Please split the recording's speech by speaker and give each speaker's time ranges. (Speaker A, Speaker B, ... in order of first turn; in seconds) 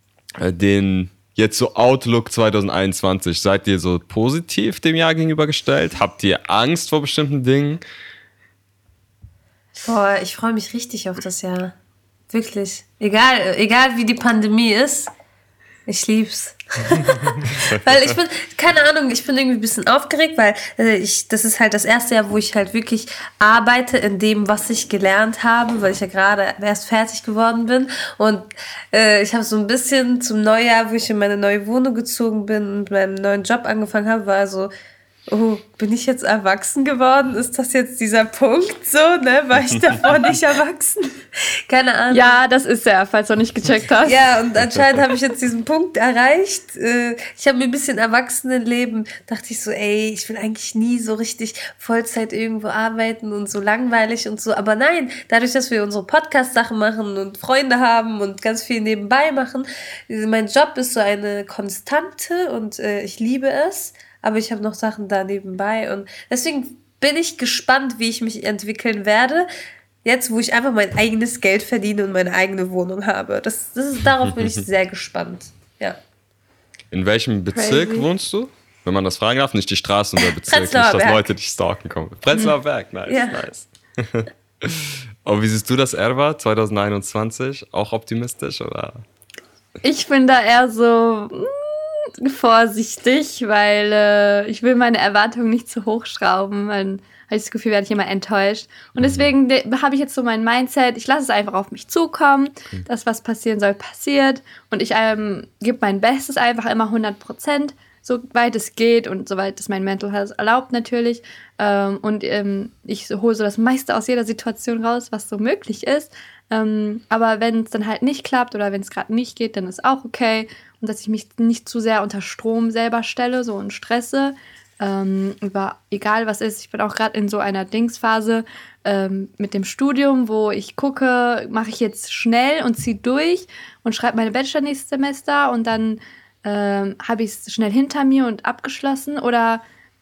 Speaker A: 0.4-7.8, 76.9-89.0
Speaker B: 9.8-11.7, 12.3-15.1, 15.9-34.7, 35.3-42.3, 44.0-69.5, 70.0-76.0, 80.4-81.2, 83.1-83.4
Speaker C: 42.1-44.2, 77.5-78.1, 89.8-139.6